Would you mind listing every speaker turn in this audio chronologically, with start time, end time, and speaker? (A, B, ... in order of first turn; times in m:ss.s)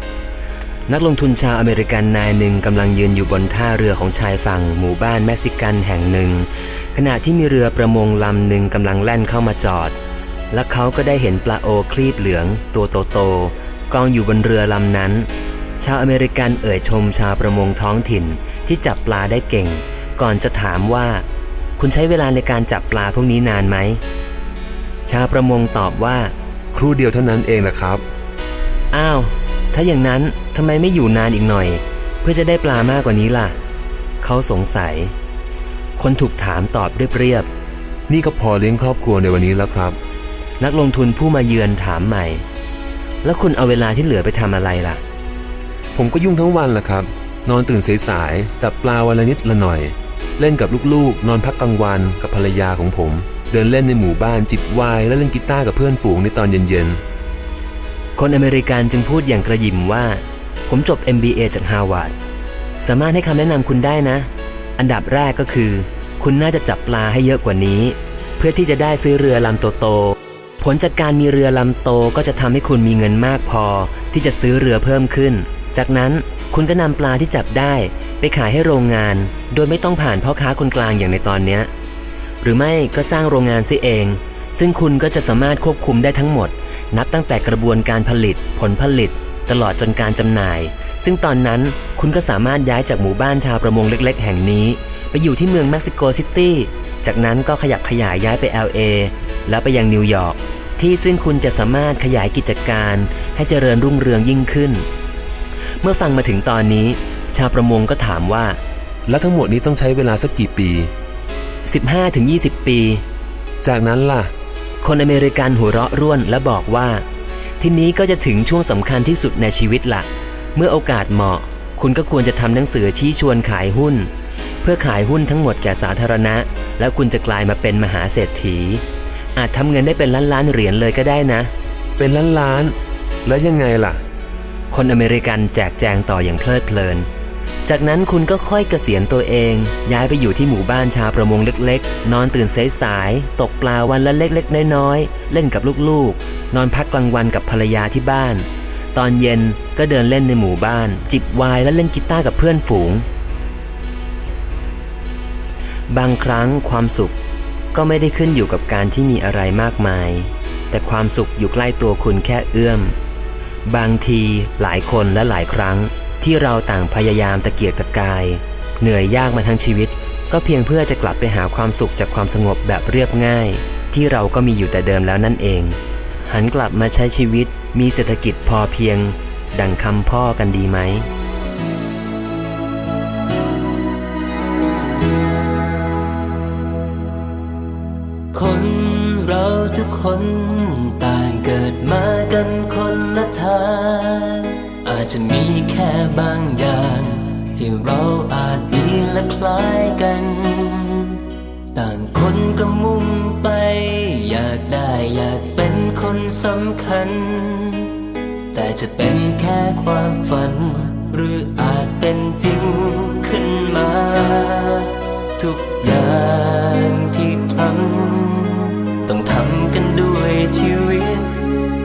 0:00.9-0:09.9 A
0:10.5-0:21.2 A
0:21.8-0:24.0 A
0:25.0-0:26.3 A
0:26.7-0:28.0 B
0:28.9-0:33.6 A
0:34.2-0:35.1 A
0:36.0-0:37.5 A
0:38.1-0:40.0 B
0:40.6-0:42.4 A
0:43.2-0:45.0 A
0:45.9-0:57.0 B
0:58.2-1:02.1 A
1:02.8-1:21.7 A
1:22.4-1:44.8 A
1:45.8-1:48.6 A
1:49.0-1:50.9 B
1:51.6-1:53.0 A
1:53.6-1:54.3 B
1:54.8-1:57.0 A
1:57.6-2:04.1 A
2:04.6-2:08.8 A
2:09.3-2:11.5 A
2:12.0-2:14.0 B
2:14.7-2:17.0 A
2:17.6-2:33.0 A
2:35.9-2:37.2 A
2:37.7-2:42.9 A
2:43.6-3:01.1 A
3:08.3-3:28.0 C
3:28.5-3:41.4 C